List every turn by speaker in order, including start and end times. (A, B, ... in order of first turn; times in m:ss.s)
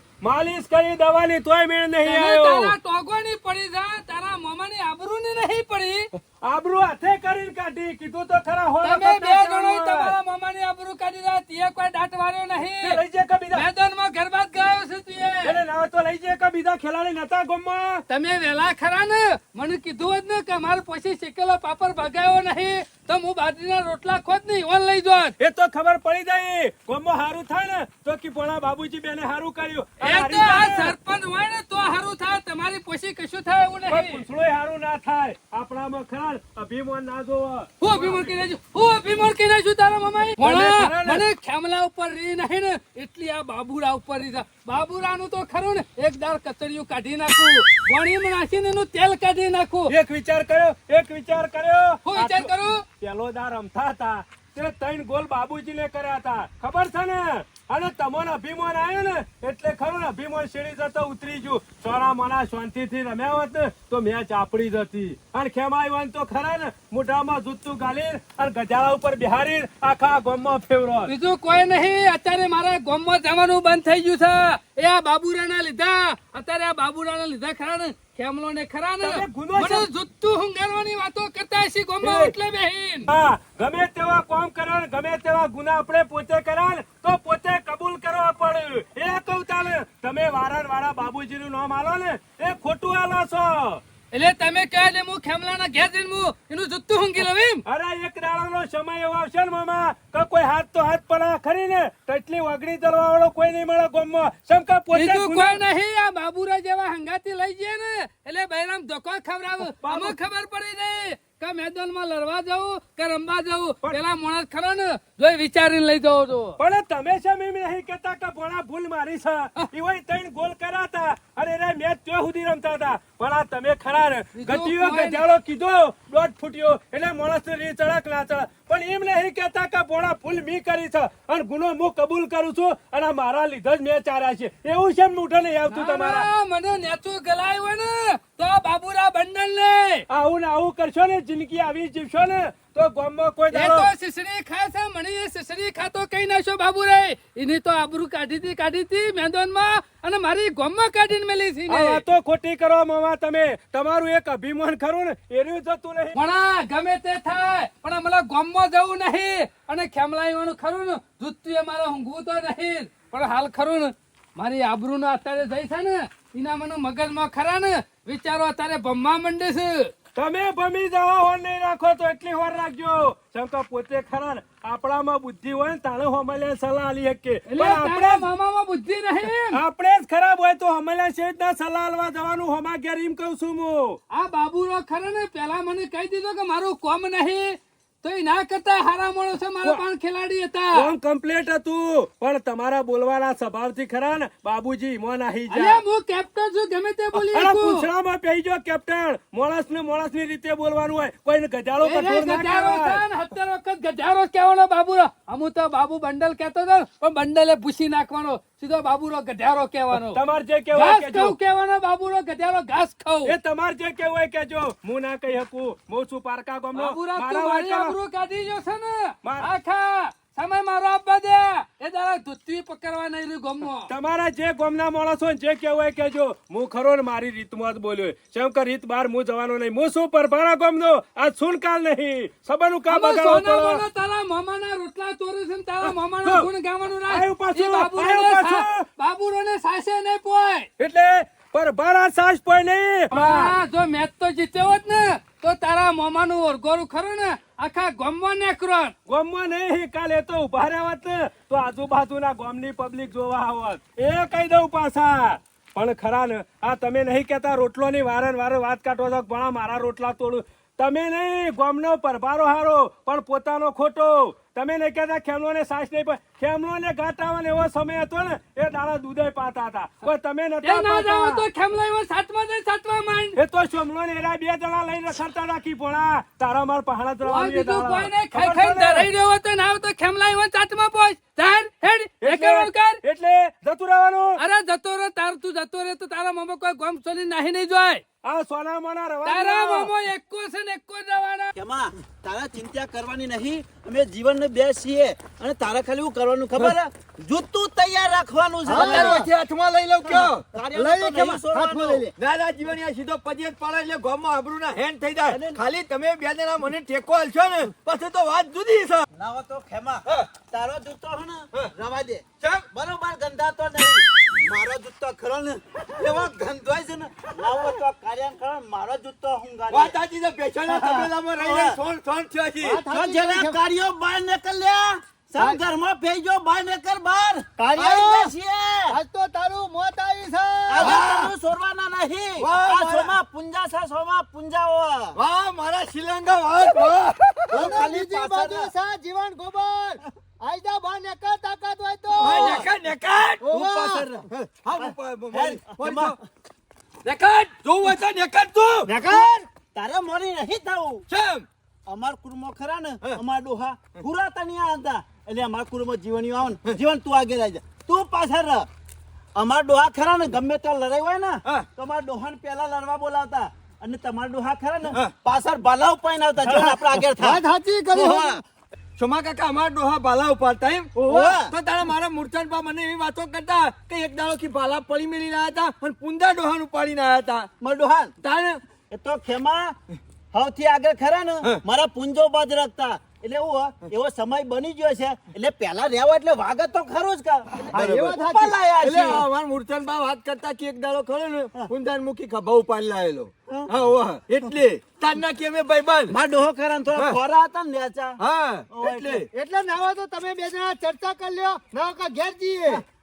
0:00.2-0:02.8 A
0:02.0-0:06.1 B
0:06.4-0:10.2 A
0:08.8-0:13.0 B
0:12.8-0:13.7 A
0:13.5-0:15.6 B
0:15.4-0:18.0 A
0:18.1-0:25.4 B
0:25.4-0:31.0 A
0:30.0-0:34.2 B
0:33.9-0:38.3 A
0:37.8-0:49.9 B
0:40.4-0:41.2 A
0:49.9-1:11.1 A
0:52.1-0:52.8 B
1:11.1-1:23.1 B
1:19.0-1:19.9 A
1:22.0-1:22.3 A
1:23.1-1:33.8 A
1:34.1-1:37.6 B
1:37.6-1:45.6 A
1:44.9-1:56.6 B
1:49.7-1:50.2 A
1:56.6-2:16.3 A
2:04.4-2:05.2 B
2:15.7-2:20.0 B
2:20.1-2:23.9 A
2:23.5-2:32.0 B
2:31.7-2:36.2 A
2:36.2-2:49.9 B
2:50.2-2:58.3 A
2:57.5-2:59.6 B
2:59.5-3:04.0 A
3:04.1-3:10.9 B
3:10.7-3:15.8 A
3:15.5-3:17.9 B
3:17.1-3:23.0 A
3:21.8-3:30.2 B
3:29.9-3:31.4 A
3:30.7-3:33.3 B
3:33.3-3:38.0 A
3:36.8-3:43.9 B
3:39.2-3:39.5 A
3:43.9-3:53.8 A
3:52.9-4:00.7 B
3:55.8-3:56.5 A
3:57.1-3:58.9 A
4:00.8-4:03.5 A
4:03.1-4:09.0 B
4:09.1-4:31.4 A
4:30.6-4:33.4 B
4:33.4-4:39.1 A
4:37.2-4:43.0 B
4:42.2-4:44.4 A
4:44.4-4:48.0 B
4:48.2-4:49.9 A
4:49.2-4:51.5 B
4:51.6-4:59.2 C
4:58.7-4:59.3 D
4:58.7-5:00.4 E
5:00.1-5:02.1 D
5:00.5-5:02.0 C
5:02.2-5:09.0 E
5:05.3-5:05.6 C
5:09.1-5:20.0 C
5:10.0-5:10.3 E
5:12.4-5:12.7 E
5:19.7-5:22.8 E
5:20.7-5:21.8 C
5:22.6-5:23.6 D
5:22.9-5:29.0 C
5:27.6-5:28.3 D
5:28.9-5:31.0 D
5:30.7-5:35.2 C
5:30.8-5:31.3 E
5:32.4-5:33.1 E
5:35.2-5:37.8 E
5:37.5-5:38.7 C
5:37.5-5:42.7 D
5:42.2-5:42.7 C
5:42.2-5:46.2 E
5:43.4-5:44.1 D
5:43.5-5:46.2 C
5:47.0-5:49.0 E
5:48.9-5:49.4 D
5:49.0-5:51.1 C
5:51.1-5:51.5 E
5:51.9-5:58.7 C
5:59.4-6:07.4 C
6:06.4-6:08.4 D
6:07.9-6:08.4 C
6:09.0-6:17.5 E
6:11.0-6:11.5 C
6:17.6-6:18.1 C
6:18.2-6:18.6 E
6:18.9-6:19.8 C
6:20.3-6:29.3 C
6:27.7-6:28.2 E
6:27.7-6:28.6 D
6:28.8-6:36.2 E
6:36.1-6:39.2 C
6:38.2-6:39.3 E
6:39.3-6:42.8 D